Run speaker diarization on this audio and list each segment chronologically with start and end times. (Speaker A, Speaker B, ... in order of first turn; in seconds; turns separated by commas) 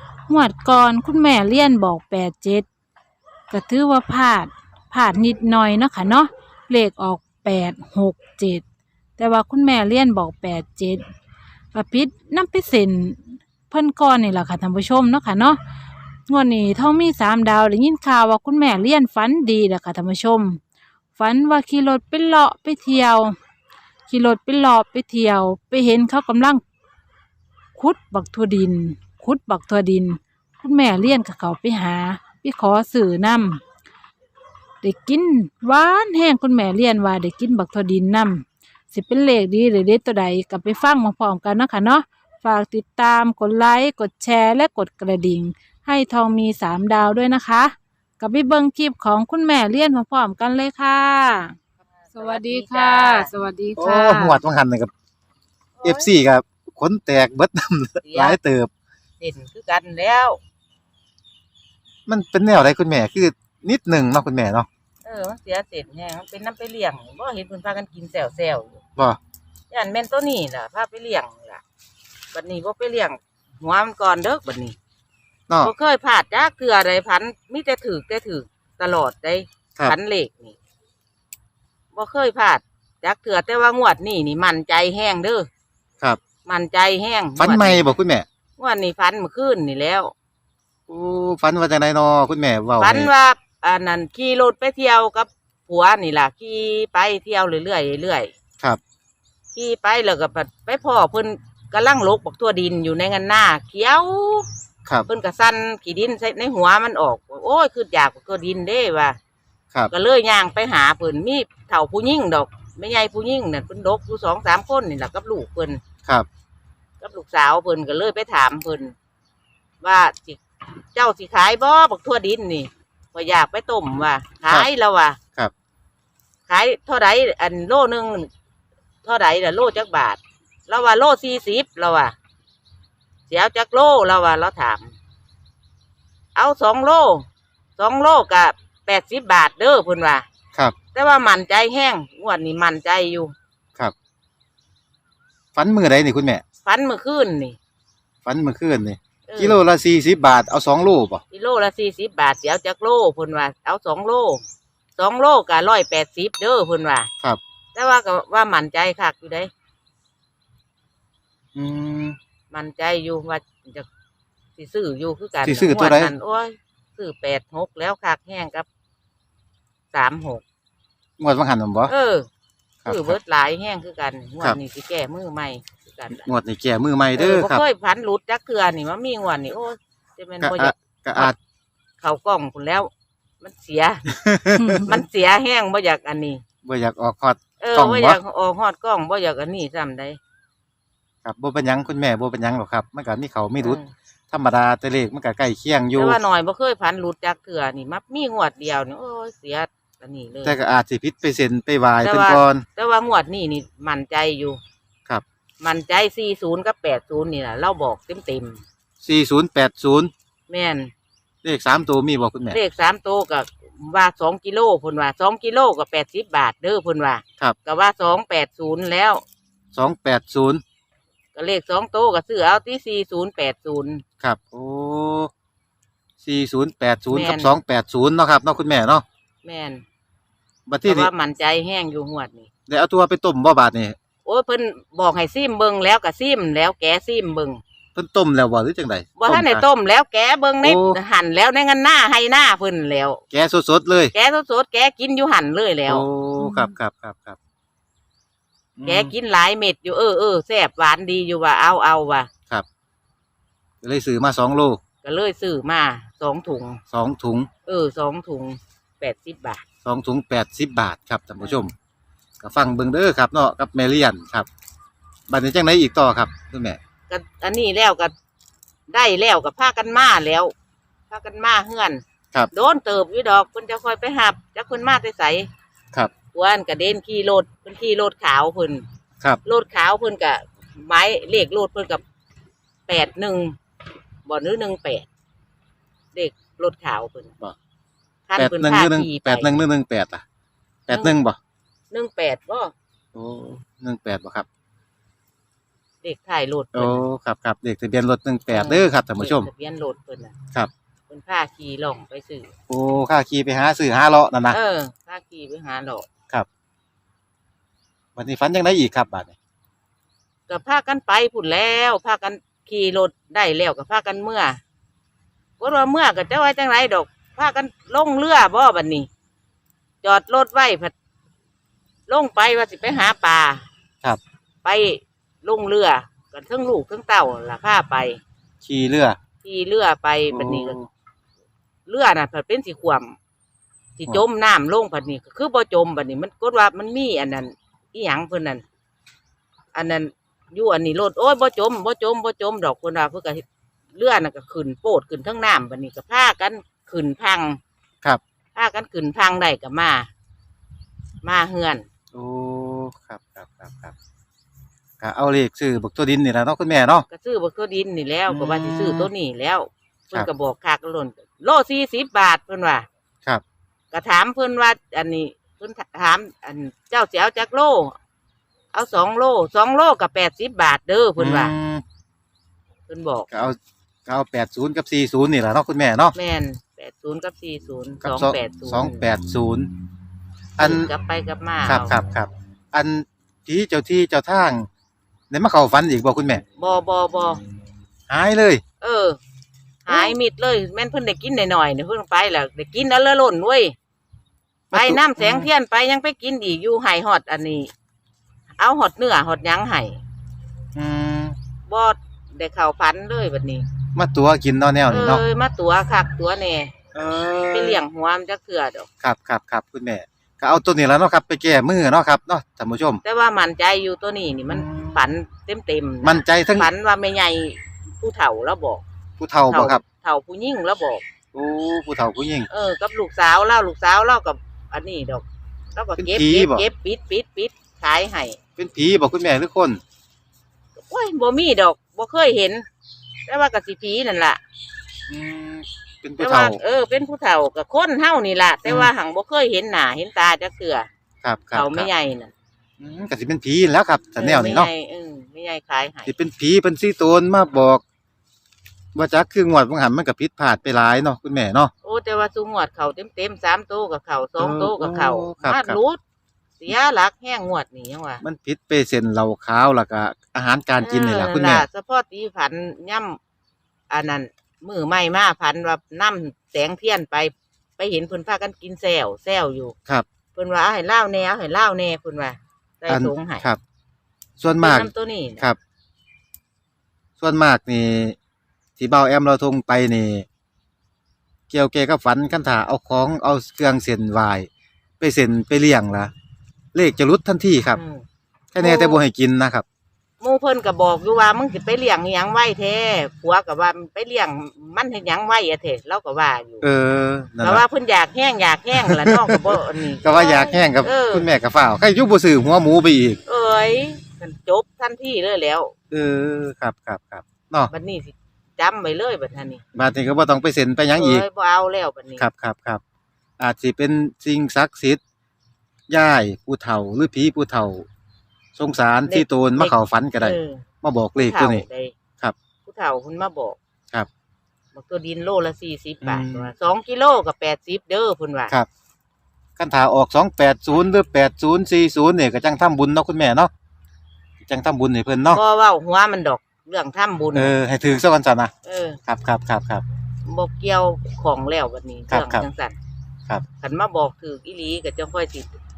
Speaker A: 0.3-2.6, Speaker A: 3.5-8.6, Speaker A: 9.2-11.0, Speaker A: 11.7-15.6, Speaker A: 16.3-20.6, Speaker A: 21.1-23.3, Speaker A: 24.1-26.6, Speaker A: 27.8-33.6, Speaker A: 34.8-51.5, Speaker B: 52.0-53.3, Speaker A: 52.1-54.4, Speaker C: 53.8-54.9, Speaker B: 55.8-56.1, Speaker C: 55.8-58.7, Speaker B: 58.0-58.4, Speaker B: 59.2-60.4, Speaker C: 62.0-64.7, Speaker B: 65.0-68.8, Speaker B: 69.7-71.6, Speaker B: 72.3-74.8, Speaker B: 75.6-80.5, Speaker B: 81.9-85.5, Speaker B: 86.4-88.0, Speaker C: 87.4-88.2, Speaker B: 88.6-90.1, Speaker C: 90.9-93.1, Speaker B: 92.8-98.3, Speaker B: 99.5-104.5, Speaker B: 105.1-109.2, Speaker B: 109.9-115.8, Speaker B: 117.0-118.9, Speaker B: 119.8-120.4, Speaker B: 120.9-125.2, Speaker B: 126.5-128.3, Speaker B: 129.0-132.1, Speaker B: 133.3-134.9, Speaker B: 136.3-137.2, Speaker B: 137.8-140.2, Speaker B: 140.9-143.3, Speaker C: 145.5-146.4, Speaker B: 146.6-147.6, Speaker C: 148.2-151.2, Speaker B: 149.3-149.6, Speaker B: 151.3-154.4, Speaker B: 155.0-157.1, Speaker B: 157.7-159.5, Speaker C: 161.6-162.2, Speaker B: 162.5-163.8, Speaker B: 164.6-168.7, Speaker C: 165.4-166.1, Speaker B: 169.9-170.4, Speaker C: 171.2-171.9, Speaker B: 171.9-172.2, Speaker C: 172.8-173.2, Speaker B: 172.9-176.2, Speaker C: 176.1-177.6, Speaker B: 177.2-181.3, Speaker C: 180.4-181.3, Speaker B: 182.0-182.9, Speaker B: 183.4-184.1, Speaker C: 184.1-184.9, Speaker A: 184.6-184.8, Speaker B: 184.8-186.4, Speaker C: 186.6-188.2, Speaker B: 187.6-190.2, Speaker C: 191.2-193.8, Speaker B: 193.6-193.9, Speaker C: 194.3-196.2, Speaker B: 195.9-200.6, Speaker C: 200.4-202.6, Speaker B: 202.0-204.6, Speaker B: 205.6-208.6, Speaker C: 209.0-210.1, Speaker B: 210.5-210.9, Speaker C: 211.4-212.6, Speaker B: 212.5-219.2, Speaker C: 219.7-220.6, Speaker B: 221.3-224.0, Speaker C: 224.2-225.3, Speaker C: 226.2-229.0, Speaker B: 227.1-227.5, Speaker B: 229.4-229.8, Speaker C: 230.7-231.1, Speaker B: 230.8-232.5, Speaker C: 232.7-233.9, Speaker B: 234.2-237.6, Speaker C: 237.9-239.6, Speaker B: 239.2-243.2, Speaker C: 240.6-241.0, Speaker C: 243.3-244.1, Speaker B: 244.1-246.1, Speaker C: 245.9-247.4, Speaker A: 246.4-246.7, Speaker C: 248.8-249.1, Speaker B: 248.8-252.3, Speaker C: 253.8-254.8, Speaker B: 255.0-256.8, Speaker C: 256.9-257.5, Speaker B: 257.6-259.6, Speaker C: 259.8-261.7, Speaker C: 262.4-264.5, Speaker C: 265.3-266.8, Speaker B: 267.1-268.1, Speaker B: 268.9-270.5, Speaker B: 271.1-275.5, Speaker B: 276.3-278.8, Speaker B: 279.4-282.0, Speaker B: 282.9-283.6, Speaker B: 284.2-285.1, Speaker B: 286.1-287.3, Speaker B: 288.3-289.5, Speaker C: 288.4-290.2, Speaker C: 290.9-291.4, Speaker B: 290.9-291.2, Speaker B: 291.9-292.7, Speaker C: 293.1-294.4, Speaker B: 296.0-297.0, Speaker C: 296.7-299.5, Speaker B: 298.5-300.3, Speaker B: 301.1-302.5, Speaker C: 302.7-304.6, Speaker B: 304.5-306.1, Speaker C: 308.1-309.3, Speaker B: 310.5-314.6, Speaker B: 315.6-319.1, Speaker B: 320.0-320.9, Speaker B: 322.1-323.6, Speaker B: 324.6-328.2, Speaker C: 328.6-329.2, Speaker B: 329.4-330.8, Speaker C: 330.3-330.9, Speaker B: 331.9-333.1, Speaker B: 334.0-338.6, Speaker B: 339.7-343.4, Speaker B: 343.9-347.6, Speaker B: 348.5-350.1, Speaker B: 351.2-351.9, Speaker C: 352.1-353.9, Speaker C: 355.0-357.1, Speaker B: 357.1-362.9, Speaker C: 358.3-359.1, Speaker B: 363.9-367.9, Speaker B: 368.7-371.5, Speaker C: 371.2-371.8, Speaker B: 372.9-373.3, Speaker C: 373.3-376.1, Speaker B: 376.1-379.0, Speaker C: 378.0-379.7, Speaker C: 380.6-380.9, Speaker B: 380.6-381.9, Speaker C: 381.6-384.7, Speaker C: 385.3-386.4, Speaker B: 386.6-387.4, Speaker C: 388.1-388.6, Speaker B: 388.8-389.2, Speaker B: 389.8-393.7, Speaker C: 389.9-390.1, Speaker C: 394.7-395.5, Speaker B: 394.7-397.7, Speaker B: 398.6-400.0, Speaker C: 400.8-401.4, Speaker B: 401.7-403.6, Speaker C: 403.9-405.2, Speaker B: 404.9-406.7, Speaker C: 406.9-407.8, Speaker B: 407.5-408.9, Speaker C: 409.0-413.0, Speaker B: 413.0-418.8, Speaker C: 414.5-415.1, Speaker C: 416.0-416.7, Speaker C: 419.2-419.8, Speaker B: 419.5-421.0, Speaker C: 421.3-422.5, Speaker B: 422.5-428.4, Speaker C: 426.0-426.6, Speaker C: 428.6-429.8, Speaker B: 430.8-432.6, Speaker B: 433.3-434.4, Speaker C: 435.1-436.6, Speaker B: 436.2-440.9, Speaker C: 438.6-438.9, Speaker C: 441.2-441.9, Speaker B: 441.5-442.3, Speaker C: 442.8-444.7, Speaker B: 444.2-446.1, Speaker C: 446.1-447.8, Speaker C: 448.9-451.7, Speaker B: 451.8-456.0, Speaker C: 454.4-455.8, Speaker B: 456.6-458.2, Speaker C: 458.2-461.6, Speaker B: 460.8-463.2, Speaker B: 463.9-469.7, Speaker B: 470.3-473.5, Speaker C: 472.9-473.6, Speaker C: 474.4-475.6, Speaker B: 474.6-475.4, Speaker C: 477.2-478.2, Speaker C: 478.8-480.2, Speaker C: 481.5-484.5, Speaker C: 485.0-486.1, Speaker C: 486.7-487.8, Speaker B: 487.7-488.0, Speaker C: 488.5-489.6, Speaker B: 488.6-489.0, Speaker B: 490.2-496.6, Speaker C: 496.6-497.6, Speaker B: 497.4-501.3, Speaker C: 498.7-503.2, Speaker B: 503.2-505.7, Speaker C: 505.9-507.7, Speaker B: 507.7-509.6, Speaker C: 509.7-511.2, Speaker B: 510.9-512.3, Speaker C: 512.2-512.8, Speaker C: 513.4-515.0, Speaker C: 515.9-517.9, Speaker C: 518.5-521.6, Speaker B: 519.1-520.6, Speaker B: 521.1-522.0, Speaker B: 522.6-523.6, Speaker B: 524.7-528.5, Speaker C: 526.0-526.5, Speaker C: 529.6-533.5, Speaker C: 534.4-535.4, Speaker B: 535.3-537.5, Speaker C: 537.3-538.5, Speaker B: 538.6-539.0, Speaker C: 539.1-539.8, Speaker B: 540.2-542.7, Speaker C: 542.1-542.4, Speaker B: 543.6-545.5